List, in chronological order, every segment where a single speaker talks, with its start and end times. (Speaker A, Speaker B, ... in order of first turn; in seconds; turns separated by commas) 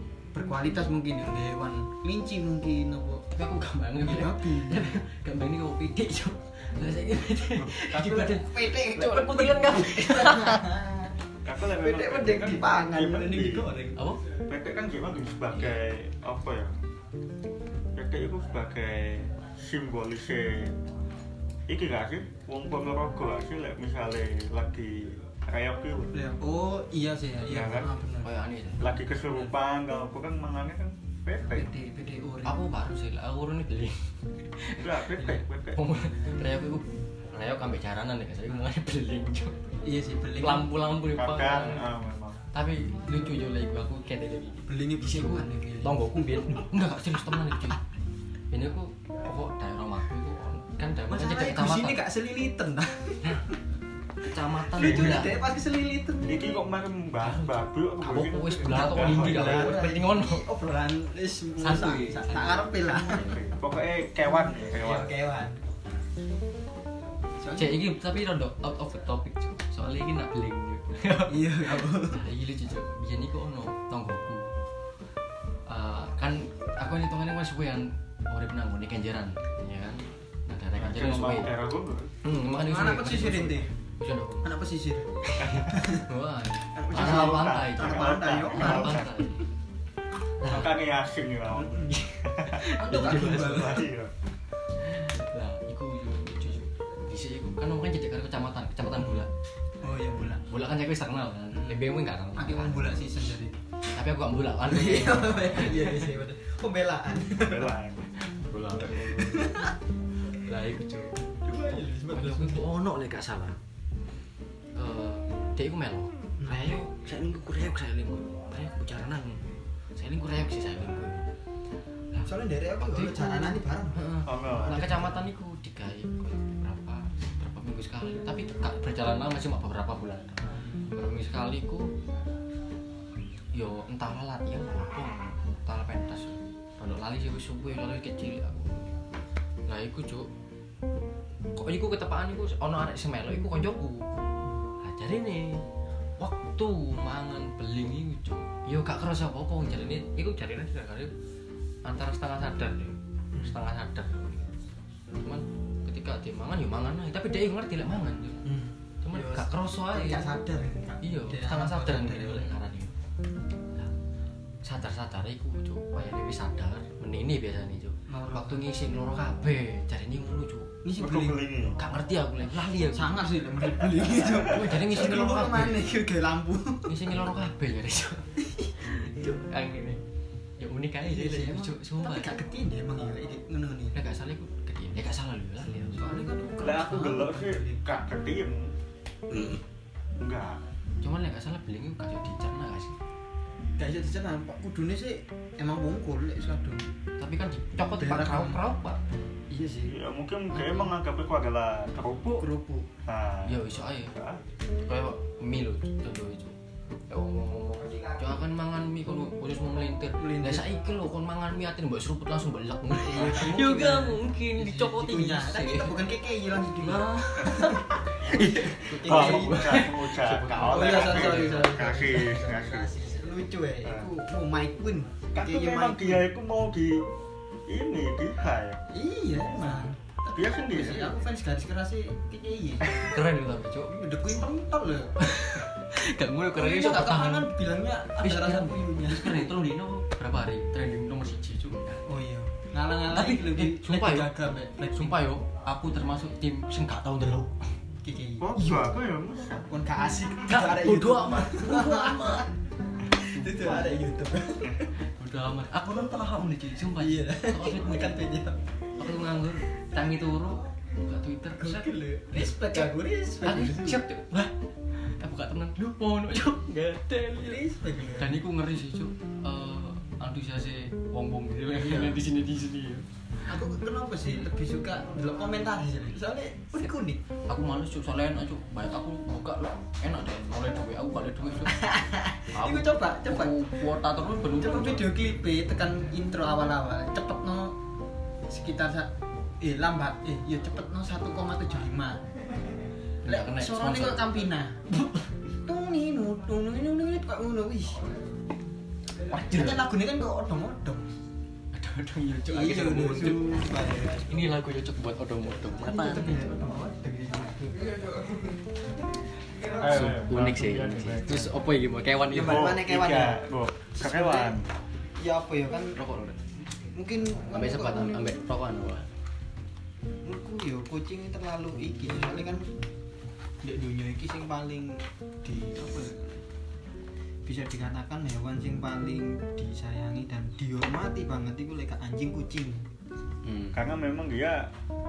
Speaker A: 0.3-3.3, Speaker B: 3.3-10.7, Speaker A: 4.0-4.9, Speaker A: 7.6-14.0, Speaker C: 11.4-13.7, Speaker B: 14.0-14.2, Speaker C: 14.5-16.8, Speaker B: 15.5-15.8, Speaker C: 17.9-20.8, Speaker C: 21.7-26.1, Speaker A: 26.1-28.4, Speaker C: 27.4-27.9, Speaker B: 28.2-29.0, Speaker C: 28.8-31.7, Speaker A: 31.5-32.6, Speaker B: 32.5-39.6, Speaker C: 34.8-35.8, Speaker A: 39.8-40.8, Speaker B: 40.4-41.9, Speaker C: 41.1-42.5, Speaker B: 42.5-47.8, Speaker A: 44.7-46.7, Speaker B: 48.5-52.0, Speaker A: 51.1-53.6, Speaker B: 54.2-55.4, Speaker A: 54.7-56.6, Speaker C: 54.8-55.2, Speaker C: 56.2-59.8, Speaker B: 57.2-60.4, Speaker A: 58.7-63.2, Speaker B: 61.6-63.4, Speaker C: 63.1-65.1, Speaker A: 64.5-65.6, Speaker A: 67.4-67.8, Speaker B: 67.5-74.5, Speaker A: 71.3-72.3, Speaker B: 75.7-81.5, Speaker C: 80.8-82.1, Speaker B: 82.2-84.5, Speaker A: 82.6-83.7, Speaker A: 84.4-86.1, Speaker C: 85.4-85.7, Speaker B: 85.4-89.4, Speaker A: 86.7-89.1, Speaker C: 86.9-89.1, Speaker B: 90.4-90.8, Speaker C: 90.5-94.1, Speaker A: 91.5-92.0, Speaker B: 92.0-93.8, Speaker A: 92.7-93.9, Speaker B: 94.8-99.3, Speaker A: 99.8-100.4, Speaker B: 100.4-103.1, Speaker A: 101.5-103.6, Speaker B: 103.9-106.1, Speaker A: 104.7-107.8, Speaker C: 107.4-108.1, Speaker B: 108.2-109.6, Speaker A: 108.8-109.8, Speaker B: 110.4-111.1, Speaker A: 111.5-112.7, Speaker B: 112.1-113.6, Speaker B: 114.8-119.4, Speaker A: 116.4-116.8, Speaker B: 120.0-121.3, Speaker B: 122.1-131.9, Speaker A: 122.2-124.0, Speaker C: 124.2-124.8, Speaker A: 124.7-125.2, Speaker B: 133.5-138.9, Speaker B: 139.7-140.3, Speaker B: 141.6-144.1, Speaker B: 144.8-145.6, Speaker B: 146.2-151.1, Speaker B: 151.8-154.5, Speaker B: 155.2-158.4, Speaker A: 158.4-162.6, Speaker B: 159.0-160.3, Speaker B: 161.0-162.9, Speaker B: 164.6-170.8, Speaker A: 168.1-168.7, Speaker A: 170.8-171.5, Speaker C: 171.0-171.9, Speaker B: 171.8-173.2, Speaker A: 172.9-177.2, Speaker B: 173.9-175.9, Speaker B: 176.9-178.3, Speaker A: 178.4-179.4, Speaker B: 178.8-180.0, Speaker B: 180.6-182.3, Speaker A: 181.0-184.0, Speaker B: 183.9-186.2, Speaker A: 185.9-187.8, Speaker C: 186.6-188.7, Speaker A: 189.3-189.6, Speaker C: 190.2-190.6, Speaker B: 191.0-193.0, Speaker A: 193.8-196.8, Speaker B: 197.2-199.0, Speaker A: 197.9-198.6, Speaker A: 199.5-199.9, Speaker C: 199.9-202.5, Speaker B: 200.6-200.8, Speaker A: 202.4-202.9, Speaker C: 203.1-204.4, Speaker B: 203.4-204.1, Speaker B: 204.8-206.6, Speaker B: 207.1-216.2, Speaker A: 210.2-210.7, Speaker A: 213.0-219.9, Speaker B: 216.8-221.7, Speaker C: 219.0-222.9, Speaker A: 220.6-226.3, Speaker C: 223.8-224.1, Speaker C: 225.3-227.1, Speaker C: 227.7-228.8, Speaker A: 228.9-233.2, Speaker C: 230.3-231.1, Speaker B: 233.0-233.9, Speaker A: 233.9-235.2, Speaker B: 235.2-237.5, Speaker A: 236.5-239.5, Speaker B: 238.2-242.0, Speaker A: 242.1-245.2, Speaker B: 243.1-244.3, Speaker B: 244.9-247.6, Speaker A: 248.0-248.9, Speaker C: 248.4-249.7, Speaker A: 249.7-252.5, Speaker B: 250.5-252.5, Speaker A: 253.1-254.9, Speaker B: 253.2-254.0, Speaker B: 255.0-258.3, Speaker A: 257.0-258.6, Speaker B: 259.0-267.6, Speaker A: 261.6-264.0, Speaker A: 267.3-268.4, Speaker B: 268.2-273.1, Speaker A: 271.8-272.2, Speaker A: 273.4-277.2, Speaker B: 277.5-281.8, Speaker A: 281.7-283.6, Speaker B: 282.6-285.1, Speaker A: 284.6-287.8, Speaker A: 288.5-292.2, Speaker B: 293.2-294.4, Speaker A: 293.2-298.1, Speaker B: 299.3-299.9, Speaker A: 299.4-301.1, Speaker B: 301.7-306.5, Speaker A: 302.5-304.3, Speaker A: 305.8-308.7, Speaker A: 309.6-309.9, Speaker B: 309.8-312.7, Speaker C: 309.8-311.6, Speaker A: 312.3-313.4, Speaker C: 312.4-314.7, Speaker A: 313.9-314.6, Speaker A: 315.2-316.0, Speaker B: 315.9-316.6, Speaker A: 316.9-318.3, Speaker B: 317.5-319.1, Speaker A: 320.2-322.7, Speaker A: 323.6-326.4, Speaker A: 327.5-332.9, Speaker B: 333.4-333.8, Speaker C: 333.7-334.7